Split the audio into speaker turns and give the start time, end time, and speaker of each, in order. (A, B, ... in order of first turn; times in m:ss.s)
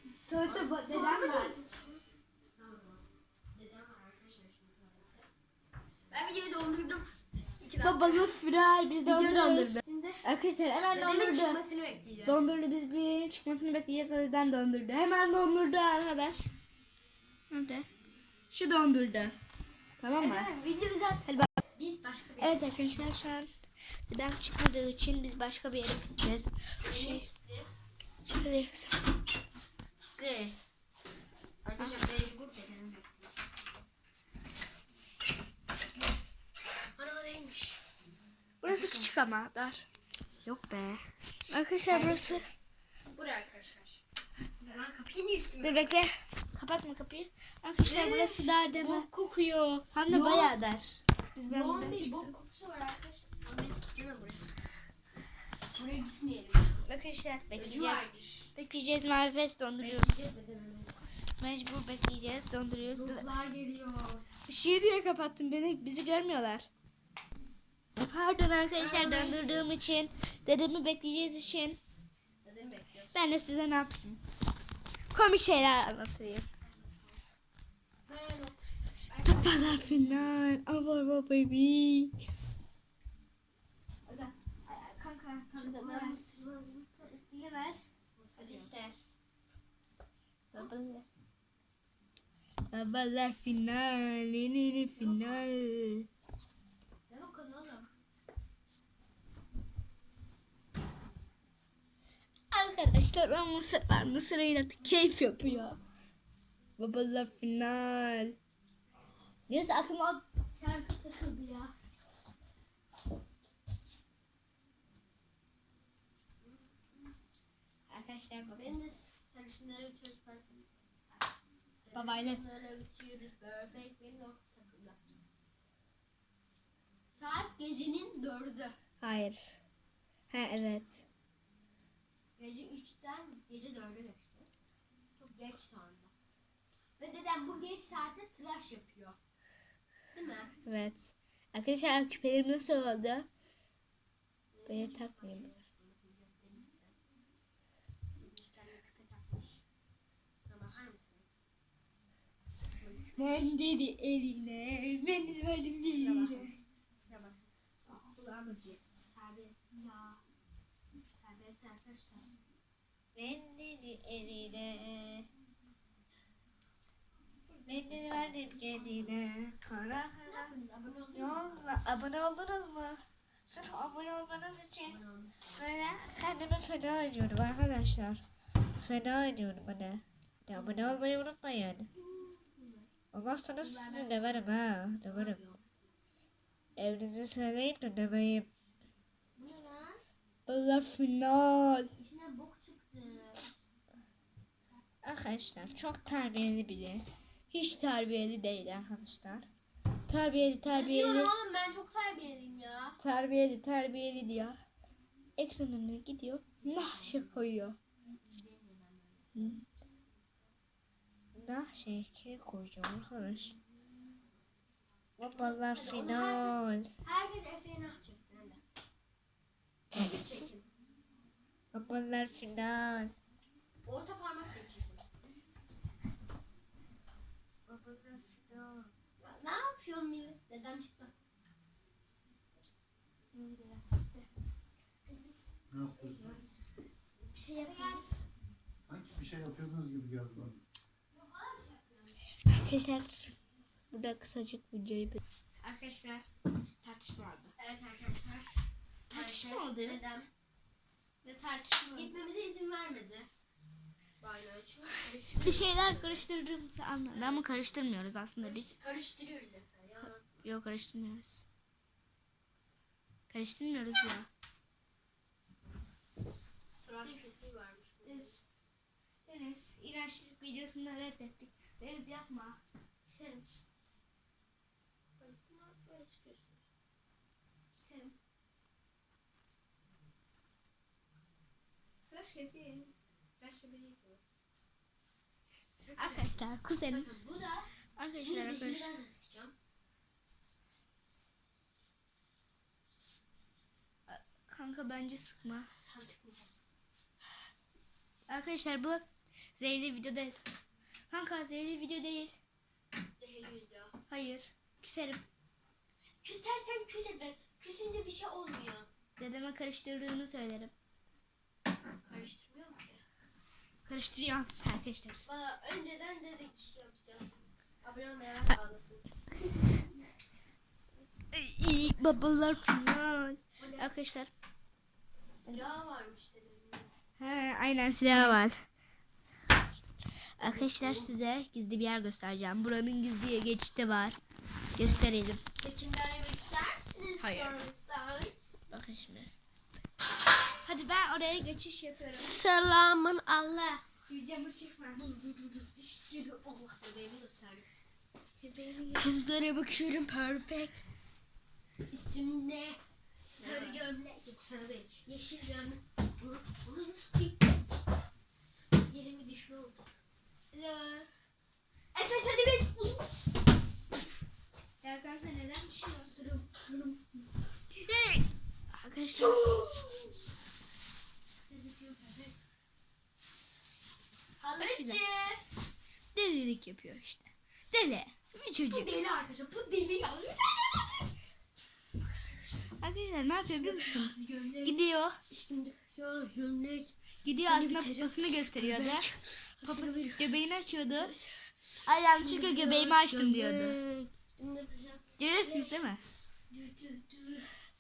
0:00.3-0:01.6 A
0:00.4-0:02.0 B
0:02.6-0:05.3 B
0:06.1-0:08.4 B
0:07.8-0:11.6 A
0:09.0-0:10.3 B
0:10.9-0:12.5 B
0:12.2-0:16.4 A
0:17.5-0:17.9 A
0:18.5-0:19.4 A
0:20.0-0:20.5 A
0:20.2-0:22.7 B
0:21.2-0:21.5 A
0:22.4-0:23.5 A
0:24.1-0:27.2 A
0:26.9-0:27.7 B
0:28.2-0:29.1 A
0:30.2-0:30.6 B
0:31.6-0:33.6 B
0:37.0-0:37.8 B
0:38.6-0:39.8 A
0:38.7-0:39.1 B
0:40.4-0:41.0 B
0:41.5-0:42.4 A
0:41.9-0:42.4 B
0:43.1-0:44.0 B
0:44.6-0:46.1 B
0:45.6-0:49.1 A
0:47.8-0:50.6 B
0:49.9-0:52.3 A
0:51.5-0:54.4 B
0:55.8-0:56.8 B
0:56.8-1:00.3 A
0:57.5-0:58.5 B
0:59.8-1:01.0 B
1:01.4-1:03.3 A
1:02.9-1:04.3 B
1:04.5-1:06.7 A
1:08.0-1:11.8 A
1:08.8-1:09.7 B
1:12.4-1:13.2 B
1:13.1-1:14.2 A
1:15.1-1:16.5 A
1:16.6-1:17.2 B
1:18.1-1:20.3 B
1:19.2-1:22.1 A
1:24.1-1:27.8 A
1:25.6-1:26.3 B
1:28.2-1:28.9 B
1:28.4-1:29.0 A
1:30.5-1:31.1 A
1:32.7-1:36.1 A
1:35.0-1:35.5 B
1:37.1-1:37.9 B
1:42.5-1:45.8 A
1:46.8-1:48.4 A
1:49.5-1:50.2 A
1:50.6-1:51.7 B
1:56.4-1:56.9 B
1:57.9-1:58.8 A
1:58.6-2:00.6 B
2:01.8-2:05.0 B
2:01.9-2:02.4 A
2:07.1-2:08.8 B
2:09.0-2:09.6 A
2:10.3-2:11.0 A
2:12.4-2:14.5 B
2:15.2-2:16.1 B
2:17.0-2:19.2 B
2:20.1-2:20.6 B
2:20.6-2:23.3 A
2:24.6-2:27.0 B
2:24.7-2:25.5 A
2:28.2-2:29.6 B
2:30.5-2:31.4 B
2:32.8-2:33.5 B
2:33.2-2:36.5 A
2:35.8-2:36.6 B
2:37.1-2:37.4 B
2:37.9-2:38.8 A
2:39.1-2:40.2 B
2:41.2-2:42.4 B
2:43.2-2:45.3 A
2:47.6-2:50.5 A
2:47.9-2:49.0 B
2:50.2-2:51.6 B
2:51.1-2:58.2 A
2:54.8-2:55.5 B
2:58.8-3:01.9 A
3:00.5-3:01.0 B
3:02.0-3:02.9 B
3:03.1-3:05.4 A
3:03.6-3:04.5 B
3:05.1-3:05.6 B
3:06.8-3:08.5 A
3:09.4-3:10.0 B
3:10.5-3:11.9 A
3:12.0-3:13.5 B
3:15.0-3:19.5 A
3:20.1-3:21.3 A
3:20.6-3:23.0 B
3:23.0-3:24.6 A
3:25.4-3:27.8 A
3:26.6-3:27.3 B
3:28.3-3:29.3 B
3:29.4-3:29.6 A
3:31.4-3:33.6 A
3:35.2-3:36.9 A
3:35.4-3:38.6 B
3:39.9-3:40.7 B
3:41.7-3:43.1 A
3:43.8-3:45.0 B
3:47.7-3:48.9 A
3:49.2-3:51.1 B
3:53.3-3:54.2 A
3:55.7-3:56.0 C
3:56.0-3:56.4 B
3:57.4-3:58.1 A
3:57.4-3:58.2 B
3:58.9-4:00.6 C
4:01.2-4:01.9 B
4:02.4-4:03.4 A
4:03.9-4:06.3 A
4:06.8-4:07.5 A
4:07.6-4:10.3 B
4:09.1-4:10.0 A
4:11.2-4:12.1 A
4:11.9-4:13.3 B
4:14.2-4:16.3 B
4:15.4-4:18.8 A
4:17.1-4:17.7 B
4:18.4-4:20.3 B
4:20.4-4:21.4 A
4:23.3-4:24.3 A
4:26.8-4:28.4 B
4:28.0-4:28.3 A
4:29.3-4:32.6 A
4:33.1-4:33.4 B
4:35.2-4:36.6 B
4:37.8-4:38.2 A
4:42.1-4:42.9 A
4:43.4-4:44.2 B
4:45.8-4:47.7 B
4:46.0-4:47.1 A
4:48.0-4:48.9 A
4:48.2-4:49.6 B
4:54.1-4:55.7 A
4:55.8-4:56.5 B
4:58.3-4:59.0 A
4:59.6-5:00.4 A
5:01.1-5:02.3 A
5:03.2-5:03.9 B
5:04.1-5:05.2 A
5:06.2-5:08.9 B
5:09.2-5:10.7 A
5:12.0-5:13.0 B
5:13.8-5:15.2 A
5:15.3-5:19.0 B
5:21.3-5:24.3 A
5:23.6-5:23.9 B
5:25.4-5:26.9 B
5:27.2-5:28.6 A
5:28.1-5:28.4 B
5:30.4-5:34.2 A
5:30.4-5:31.1 B
5:34.8-5:35.4 A
5:34.8-5:35.0 B
5:35.6-5:38.6 B
5:37.2-5:37.6 A
5:38.7-5:39.3 A
5:40.6-5:42.4 A
5:42.1-5:43.8 B
5:44.1-5:45.1 A
5:45.0-5:47.7 B
5:48.4-5:49.1 A
5:48.9-5:50.8 B
5:51.9-5:57.6 B
5:53.4-5:53.8 A
5:58.8-5:59.9 B
6:00.5-6:01.1 A
6:01.9-6:03.2 B
6:04.8-6:06.1 A
6:05.9-6:07.2 B
6:07.9-6:08.2 A
6:08.7-6:09.7 A
6:09.2-6:10.2 B
6:11.5-6:12.4 B
6:14.4-6:15.4 B
6:14.6-6:15.0 A
6:16.2-6:18.9 A
6:18.7-6:21.1 B
6:22.8-6:25.2 A
6:23.4-6:30.3 B
6:27.2-6:29.1 A
6:29.6-6:31.1 A
6:31.0-6:31.5 B
6:31.8-6:33.8 A
6:32.2-6:35.8 B
6:35.2-6:36.0 A
6:36.5-6:37.5 B